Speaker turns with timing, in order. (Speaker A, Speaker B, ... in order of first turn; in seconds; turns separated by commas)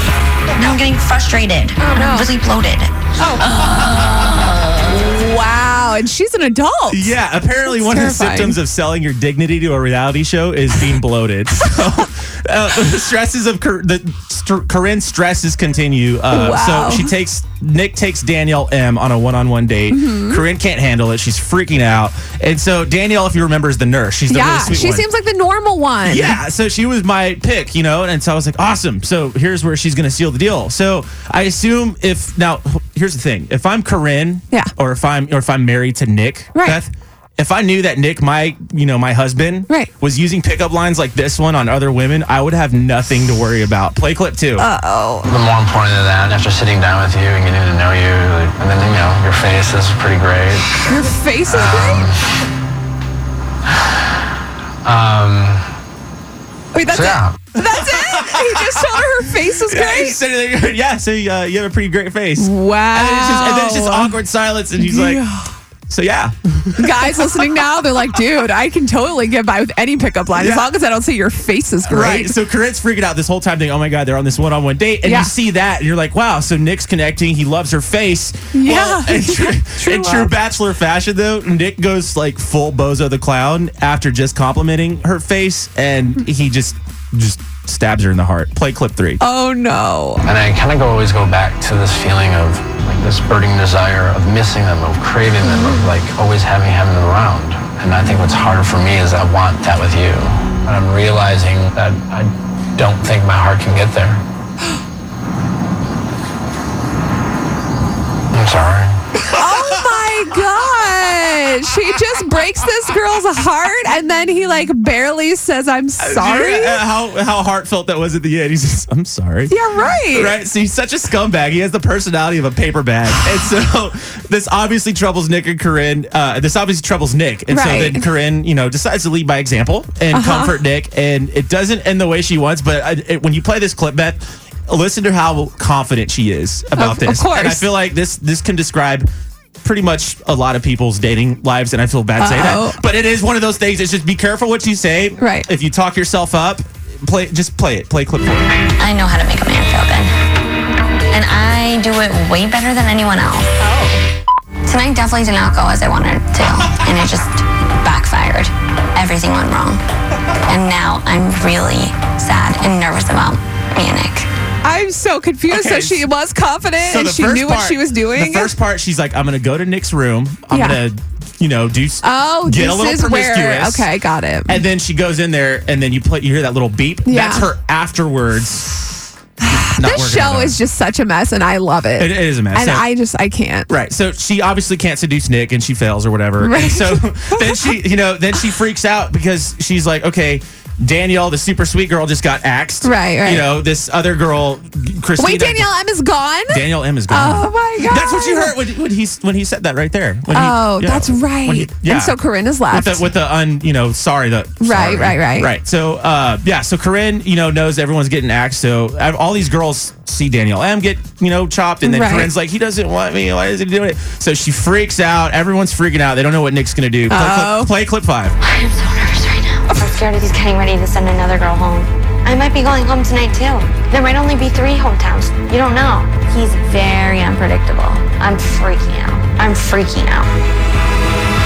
Speaker A: 0.6-2.9, Speaker B: 1.8-2.3, Speaker B: 3.2-3.6, Speaker A: 3.6-4.5, Speaker B: 4.8-8.6, Speaker C: 6.9-25.1, Speaker B: 16.3-17.1, Speaker B: 19.9-20.4, Speaker B: 24.3-26.4, Speaker C: 26.1-44.7, Speaker B: 36.5-36.8, Speaker B: 44.6-45.3, Speaker D: 45.2-50.7, Speaker B: 50.9-52.0, Speaker D: 51.5-52.2, Speaker D: 54.8-55.6, Speaker B: 56.7-60.2, Speaker D: 56.9-57.4, Speaker C: 57.7-65.2, Speaker B: 62.4-64.2, Speaker B: 64.8-65.5, Speaker C: 65.9-67.6, Speaker B: 66.8-72.3, Speaker C: 70.3-70.7, Speaker C: 71.8-89.2, Speaker B: 75.0-75.3, Speaker B: 78.5-80.3, Speaker B: 89.2-90.2, Speaker D: 90.2-104.2, Speaker B: 95.4-95.9, Speaker D: 108.3-109.0, Speaker C: 109.3-110.2, Speaker B: 109.3-116.8, Speaker C: 116.0-139.1, Speaker B: 119.5-120.3, Speaker B: 127.5-128.1, Speaker B: 130.1-130.6, Speaker B: 136.8-137.7, Speaker C: 139.6-148.6, Speaker B: 142.2-142.8, Speaker B: 145.2-145.5, Speaker A: 148.8-150.1, Speaker A: 151.1-153.5, Speaker B: 153.6-154.0, Speaker A: 154.7-159.8, Speaker A: 160.5-164.3, Speaker B: 164.6-168.5, Speaker C: 165.5-166.1, Speaker C: 166.8-173.9, Speaker B: 170.5-170.8, Speaker B: 172.0-174.6, Speaker C: 174.5-179.0, Speaker B: 177.1-177.5, Speaker B: 179.4-183.7, Speaker C: 179.5-180.6, Speaker C: 182.0-182.9, Speaker C: 183.7-195.7, Speaker B: 186.4-187.7, Speaker B: 192.8-193.5, Speaker B: 195.2-198.6, Speaker C: 196.5-202.1, Speaker B: 200.3-203.1, Speaker C: 202.7-218.4, Speaker B: 204.6-205.5, Speaker B: 211.8-212.3, Speaker B: 217.1-217.7, Speaker A: 218.4-230.3